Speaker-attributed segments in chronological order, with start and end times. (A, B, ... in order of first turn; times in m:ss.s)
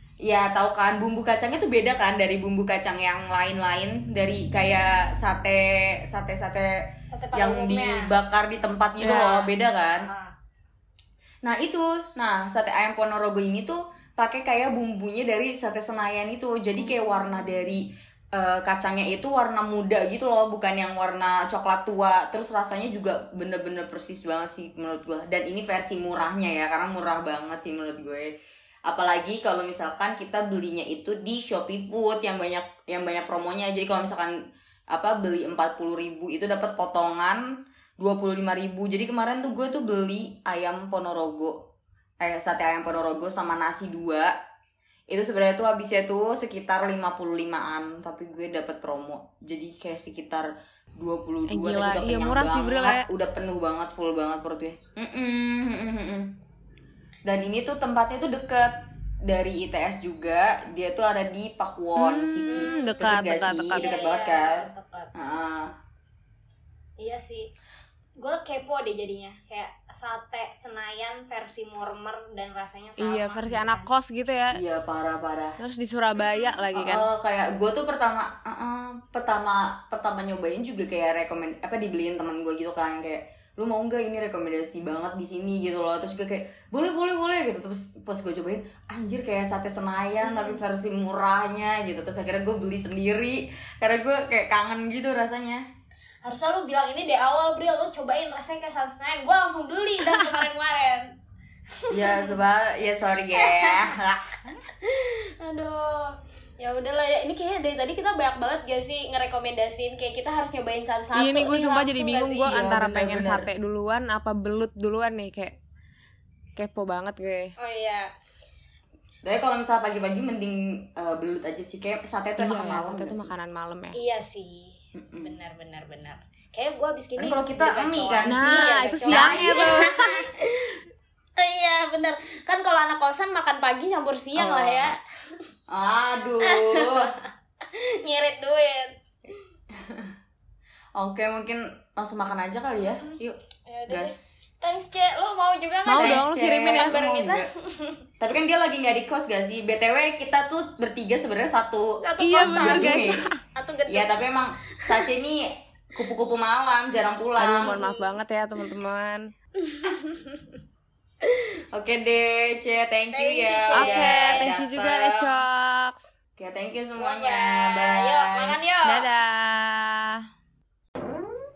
0:00.2-0:06.8 A
0:07.1-0:08.1 B
0:07.3-0:10.1 A
0:09.0-0:10.3 B
0:11.4-0:28.3 A
0:28.8-0:34.3 A
0:34.9-0:37.4 A
0:38.0-0:41.6 A
0:42.2-0:44.3 A
0:45.1-0:56.4 A
0:51.5-0:53.1 C
0:57.2-1:05.7 A
1:02.0-1:03.9 C
1:02.5-1:03.0 B
1:03.7-1:05.1 B
1:07.0-1:07.5 B
1:08.2-1:13.9 B
1:13.0-1:14.6 C
1:14.5-1:15.6 A
1:15.6-1:17.1 C
1:16.2-1:16.5 B
1:16.7-1:35.7 A
1:30.2-1:30.6 B
1:36.2-1:41.1 B
1:41.7-1:42.3 B
1:41.9-1:44.4 A
1:43.3-1:43.9 B
1:44.8-1:52.6 B
1:51.1-1:55.6 C
1:52.4-1:53.5 A
1:56.6-1:57.5 C
1:57.6-1:58.1 B
1:59.2-2:03.3 A
2:02.4-2:04.0 C
2:03.9-2:10.8 B
2:05.0-2:05.4 A
2:07.2-2:09.9 A
2:08.2-2:10.2 C
2:11.4-2:15.0 B
2:14.3-2:14.9 A
2:15.7-2:17.1 A
2:16.4-2:17.1 B
2:17.7-2:18.9 B
2:19.8-2:20.1 A
2:20.9-2:24.4 A
2:23.0-2:28.0 B
2:25.8-2:27.1 C
2:25.9-2:27.5 A
2:28.2-2:33.3 A
2:32.0-2:34.1 B
2:32.2-2:33.4 C
2:33.9-2:35.4 A
2:35.9-2:37.8 A
2:37.4-2:39.3 C
2:37.6-2:38.2 B
2:39.6-2:40.4 B
2:41.7-2:45.3 A
2:43.1-2:44.5 B
2:43.7-2:46.1 C
2:46.4-2:48.5 A
2:47.0-2:49.1 B
2:48.8-2:50.2 C